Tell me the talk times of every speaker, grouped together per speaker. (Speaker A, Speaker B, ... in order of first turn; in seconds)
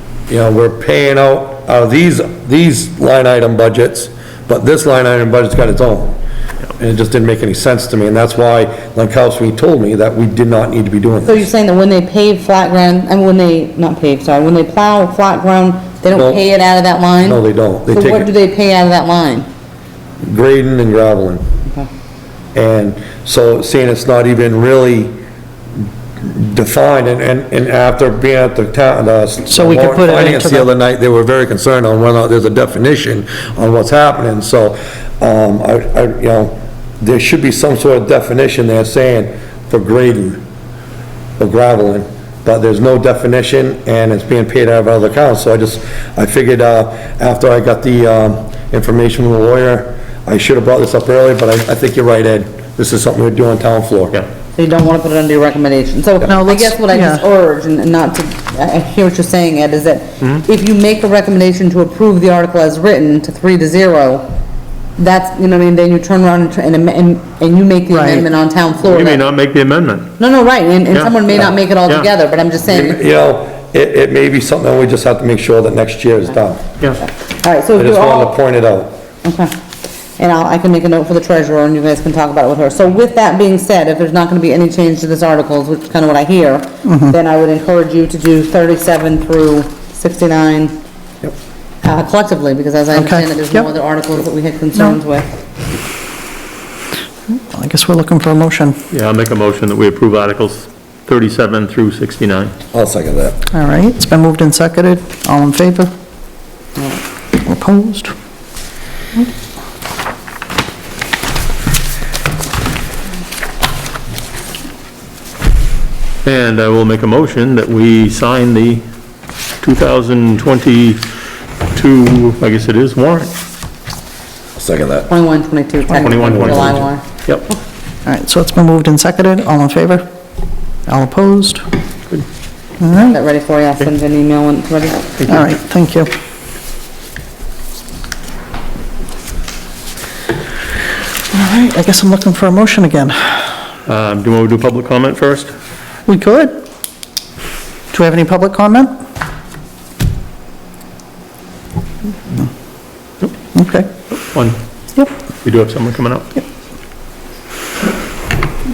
Speaker A: 0.3-6.2, 6.8-11.5, 16.1-16.4, 17.2-18.3, 20.2-21.4, 22.5-25.1, 26.2-40.4, 41.4-54.2, 72.7-76.6, 77.8-78.9, 102.7-103.4, 124.6-125.1, 126.2-126.8
Speaker B: 11.2-19.5, 54.5-64.2, 65.0-69.2, 70.2-73.0, 77.0-78.3, 79.2-79.5, 80.2-90.8, 91.8-95.3, 125.1-127.6, 133.0-135.2
Speaker C: 29.5-30.7, 56.3-57.3, 67.9-68.2, 86.8-87.1, 92.9-93.7, 97.3-98.8, 103.5-105.9, 107.4-108.1, 128.1-130.1, 130.9-131.6, 132.8-133.2, 135.3-136.1, 141.3-143.5, 146.1-146.6, 147.9-148.9, 153.5-153.9
Speaker D: 68.8-70.2, 70.9-71.2, 71.8-72.1, 98.9-102.5, 116.2-118.8, 119.6-121.0, 121.7-123.3, 125.9-127.5, 135.2-135.5, 143.9-145.5, 154.3-154.6, 155.4-156.3